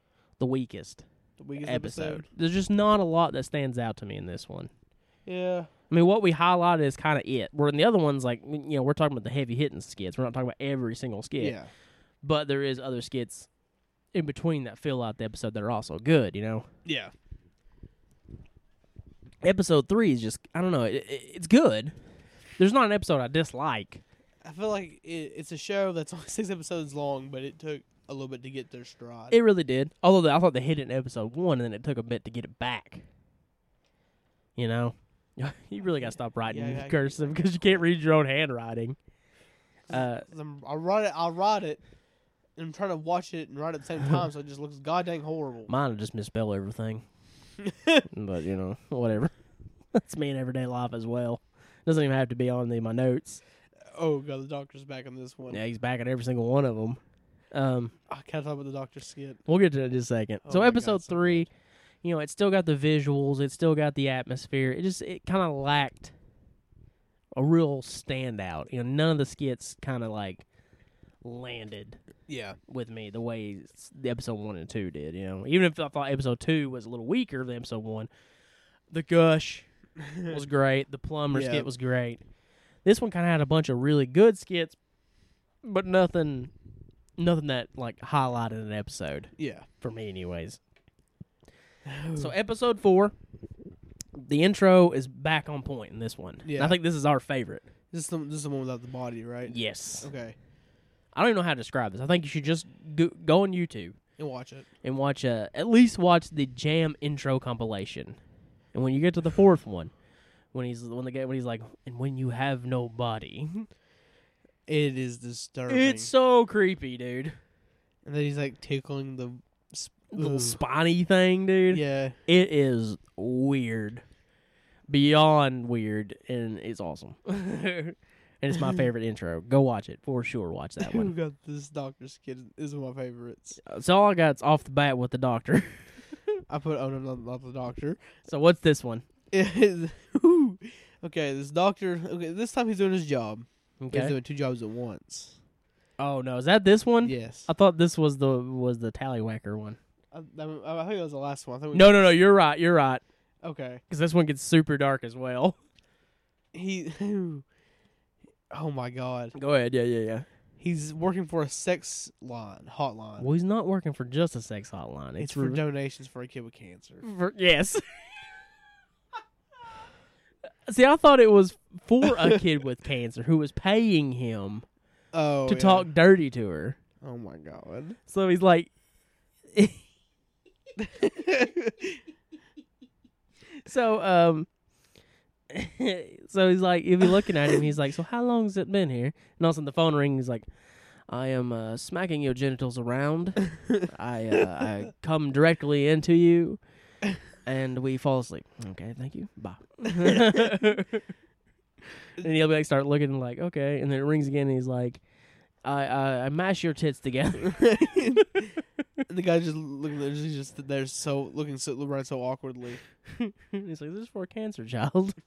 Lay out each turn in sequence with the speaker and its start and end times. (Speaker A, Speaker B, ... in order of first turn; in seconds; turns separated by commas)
Speaker A: 0.4-1.0, Speaker B: 1.4-2.3, Speaker A: 1.6-4.7, Speaker B: 5.2-5.7, Speaker A: 5.9-11.6, Speaker B: 11.4-11.7, Speaker A: 12.2-13.5, Speaker A: 14.1-16.6, Speaker B: 16.8-17.1, Speaker A: 19.4-21.9, Speaker A: 22.6-24.0, Speaker B: 24.4-29.4, Speaker A: 29.3-33.0, Speaker A: 34.6-39.0, Speaker B: 36.5-37.8, Speaker A: 39.9-40.3, Speaker B: 39.9-41.8, Speaker B: 42.5-45.7, Speaker A: 45.7-47.0, Speaker B: 47.6-48.0, Speaker A: 48.1-49.3, Speaker A: 49.9-53.4, Speaker B: 53.9-55.6, Speaker A: 55.5-57.0, Speaker A: 57.5-57.9, Speaker B: 58.1-59.4, Speaker A: 59.5-61.5, Speaker B: 60.4-61.5, Speaker A: 62.0-66.1, Speaker A: 67.3-70.4, Speaker A: 71.2-72.0, Speaker B: 72.3-72.6, Speaker A: 72.7-78.1, Speaker A: 78.9-79.7, Speaker B: 80.0-80.4, Speaker A: 80.2-82.2, Speaker B: 81.3-81.7, Speaker A: 82.8-84.8, Speaker A: 85.6-86.5, Speaker A: 87.2-90.6, Speaker B: 89.4-89.7, Speaker B: 91.8-92.3, Speaker A: 92.1-93.1, Speaker A: 94.1-97.7, Speaker B: 96.4-96.8, Speaker B: 97.9-100.4, Speaker A: 99.5-100.1, Speaker A: 101.1-104.0, Speaker B: 104.2-104.7, Speaker A: 104.8-108.2, Speaker A: 108.7-109.9, Speaker A: 110.5-113.7, Speaker B: 114.7-116.1, Speaker A: 115.7-117.4, Speaker B: 118.0-120.6, Speaker A: 120.1-124.0, Speaker B: 121.7-122.2, Speaker A: 124.9-131.1, Speaker B: 130.8-133.6, Speaker A: 133.6-136.0, Speaker B: 136.5-138.0, Speaker A: 138.3-139.0, Speaker B: 139.3-145.4, Speaker A: 143.8-144.1, Speaker A: 146.0-149.8, Speaker B: 147.0-147.5, Speaker B: 150.1-152.0, Speaker A: 151.7-153.0, Speaker B: 153.4-153.8, Speaker A: 153.9-155.6, Speaker B: 156.5-157.4, Speaker B: 158.5-159.3, Speaker A: 159.3-160.2, Speaker B: 160.6-163.3, Speaker A: 163.2-165.6, Speaker B: 165.2-167.0, Speaker A: 167.0-168.1, Speaker A: 170.7-174.6, Speaker B: 172.0-172.4, Speaker B: 175.1-175.9, Speaker A: 175.4-176.8, Speaker B: 177.0-178.0, Speaker A: 178.1-178.7, Speaker A: 179.5-179.8, Speaker B: 180.8-182.0, Speaker A: 183.6-184.5, Speaker A: 185.5-190.5, Speaker A: 191.1-196.6, Speaker A: 197.2-201.0, Speaker A: 202.2-205.0, Speaker A: 205.6-207.7, Speaker B: 207.4-208.5, Speaker B: 209.1-212.8, Speaker A: 213.1-215.2